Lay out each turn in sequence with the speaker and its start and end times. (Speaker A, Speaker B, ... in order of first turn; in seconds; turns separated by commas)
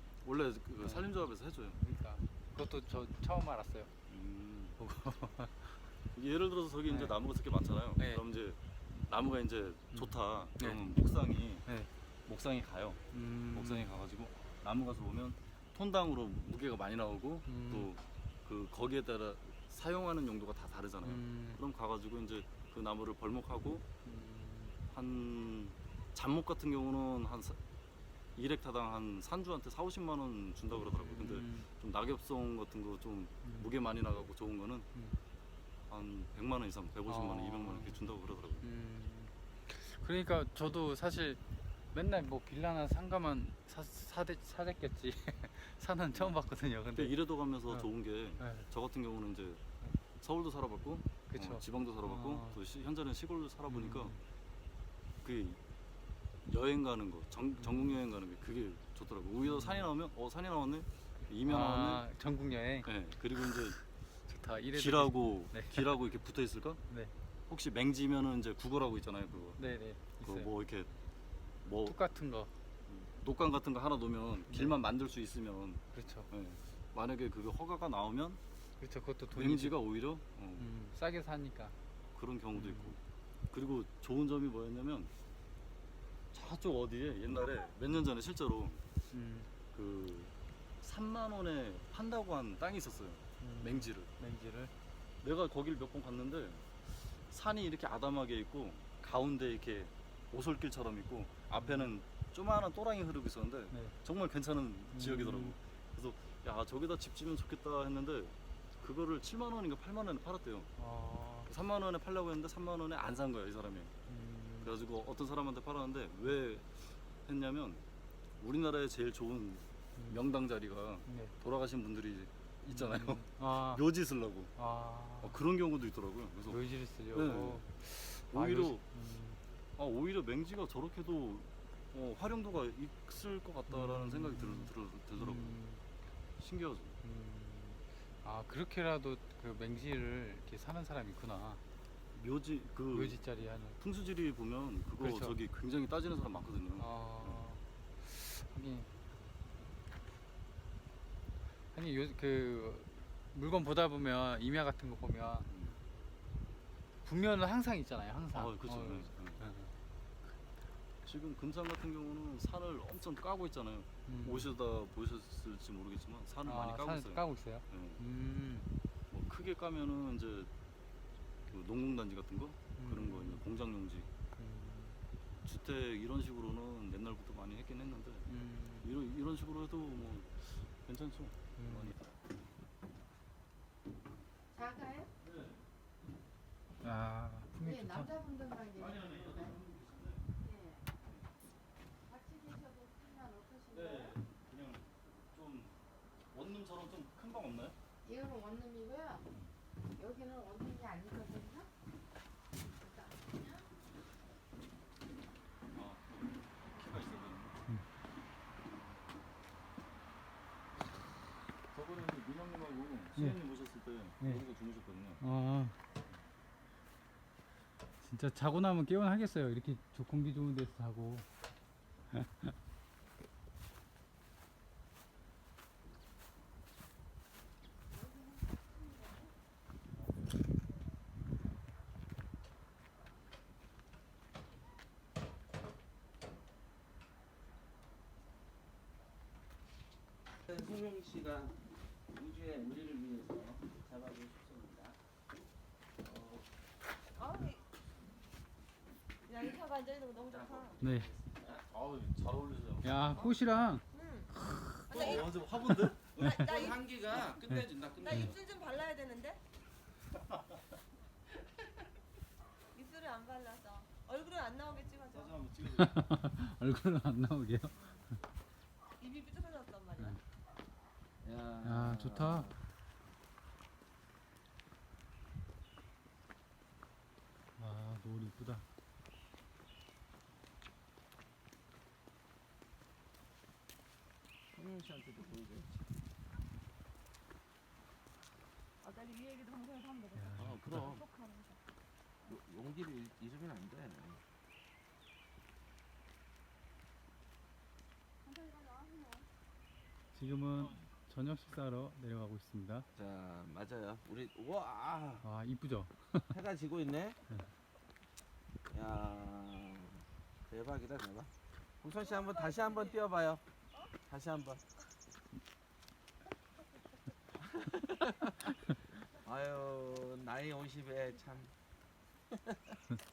Speaker A: 0.2-1.8, Speaker B: 0.8-1.1, Speaker B: 1.8-3.9, Speaker A: 4.1-4.8, Speaker B: 4.8-5.7, Speaker A: 6.1-11.6, Speaker B: 6.9-7.1, Speaker B: 9.9-10.8, Speaker A: 12.2-13.0, Speaker B: 13.1-13.9, Speaker A: 13.5-23.8, Speaker B: 17.5-17.9, Speaker B: 21.0-21.6, Speaker B: 24.0-24.8, Speaker A: 24.9-27.6, Speaker A: 28.4-34.9, Speaker B: 30.8-31.7, Speaker A: 35.9-38.6, Speaker B: 37.1-38.0, Speaker B: 38.6-41.4, Speaker B: 41.9-47.1, Speaker A: 47.0-49.6, Speaker B: 48.4-48.6, Speaker A: 50.2-54.1, Speaker B: 51.3-52.6, Speaker B: 53.7-54.2, Speaker A: 55.2-55.6, Speaker A: 56.5-62.0, Speaker B: 57.6-57.9, Speaker B: 59.4-59.9, Speaker B: 61.4-62.9, Speaker A: 62.8-63.8, Speaker B: 64.3-65.8, Speaker A: 64.8-66.8, Speaker A: 67.5-69.6, Speaker B: 69.6-70.5, Speaker A: 70.2-70.9, Speaker A: 71.6-72.0, Speaker B: 71.8-72.5, Speaker A: 72.9-78.4, Speaker B: 75.9-76.3, Speaker B: 78.8-79.8, Speaker A: 79.3-80.7, Speaker B: 80.6-81.7, Speaker A: 82.1-83.0, Speaker B: 82.5-82.9, Speaker A: 83.5-85.1, Speaker A: 86.3-88.8, Speaker B: 89.1-89.5, Speaker A: 89.7-94.1, Speaker B: 93.4-94.7, Speaker A: 95.2-110.7, Speaker B: 101.5-101.9, Speaker B: 104.9-105.6, Speaker B: 110.8-111.5, Speaker A: 111.5-113.9, Speaker B: 114.1-114.7, Speaker A: 114.6-117.8, Speaker A: 118.4-124.5, Speaker B: 121.1-121.3, Speaker B: 122.7-123.8, Speaker B: 124.6-125.3, Speaker A: 125.2-126.6, Speaker B: 126.5-129.4, Speaker A: 127.1-127.7, Speaker A: 128.3-128.8, Speaker A: 129.8-135.6, Speaker B: 133.7-135.8, Speaker A: 136.4-137.0, Speaker B: 137.0-141.6, Speaker A: 142.2-143.2, Speaker B: 142.9-143.8, Speaker A: 143.8-147.5, Speaker B: 145.0-145.3, Speaker B: 146.8-148.9, Speaker B: 151.7-155.5, Speaker A: 155.5-155.8, Speaker B: 157.1-159.7, Speaker A: 158.3-159.4, Speaker A: 161.0-168.0, Speaker B: 164.1-164.5, Speaker B: 166.4-168.7, Speaker A: 169.1-170.5, Speaker A: 171.5-174.1, Speaker B: 172.8-173.4, Speaker B: 174.4-174.9, Speaker A: 175.4-178.3, Speaker B: 178.3-178.9, Speaker A: 178.8-182.1, Speaker B: 181.6-181.9, Speaker C: 184.5-185.1, Speaker A: 185.3-185.5, Speaker B: 186.8-188.1, Speaker C: 187.6-189.6, Speaker A: 188.9-190.1, Speaker C: 190.4-190.8, Speaker C: 192.1-194.2, Speaker A: 193.7-195.7, Speaker A: 196.3-197.7, Speaker C: 198.0-199.2, Speaker C: 199.9-201.7, Speaker C: 202.8-203.7, Speaker A: 205.7-206.0, Speaker A: 206.6-207.6, Speaker A: 211.7-215.2, Speaker B: 215.2-215.7, Speaker B: 218.0-221.2, Speaker B: 222.1-222.5, Speaker C: 227.9-229.3, Speaker D: 240.4-241.6, Speaker D: 242.1-244.9, Speaker D: 246.0-246.4, Speaker E: 247.2-247.6, Speaker E: 249.3-250.8, Speaker D: 250.3-251.6, Speaker B: 250.8-251.1, Speaker A: 251.7-253.0, Speaker B: 252.8-253.8, Speaker E: 253.9-254.3, Speaker B: 254.3-255.1, Speaker A: 254.9-256.0, Speaker D: 254.9-255.3, Speaker E: 254.9-255.3, Speaker D: 256.1-258.3, Speaker E: 256.2-256.8, Speaker E: 258.0-259.4, Speaker E: 262.7-265.4, Speaker A: 265.2-265.9, Speaker B: 265.6-267.7, Speaker E: 269.0-270.2, Speaker D: 271.2-272.6, Speaker B: 271.6-272.5, Speaker B: 277.6-278.6, Speaker D: 284.5-285.8, Speaker E: 288.8-290.3, Speaker B: 290.1-290.9, Speaker D: 290.4-291.1, Speaker E: 290.9-291.6, Speaker D: 292.3-294.2, Speaker E: 298.3-299.2, Speaker B: 300.1-302.9, Speaker D: 302.9-305.2, Speaker B: 305.2-306.3, Speaker D: 306.3-307.2, Speaker D: 308.7-311.3, Speaker D: 311.8-313.4, Speaker E: 312.2-312.9, Speaker D: 314.1-314.6, Speaker D: 317.4-318.4, Speaker D: 319.2-321.5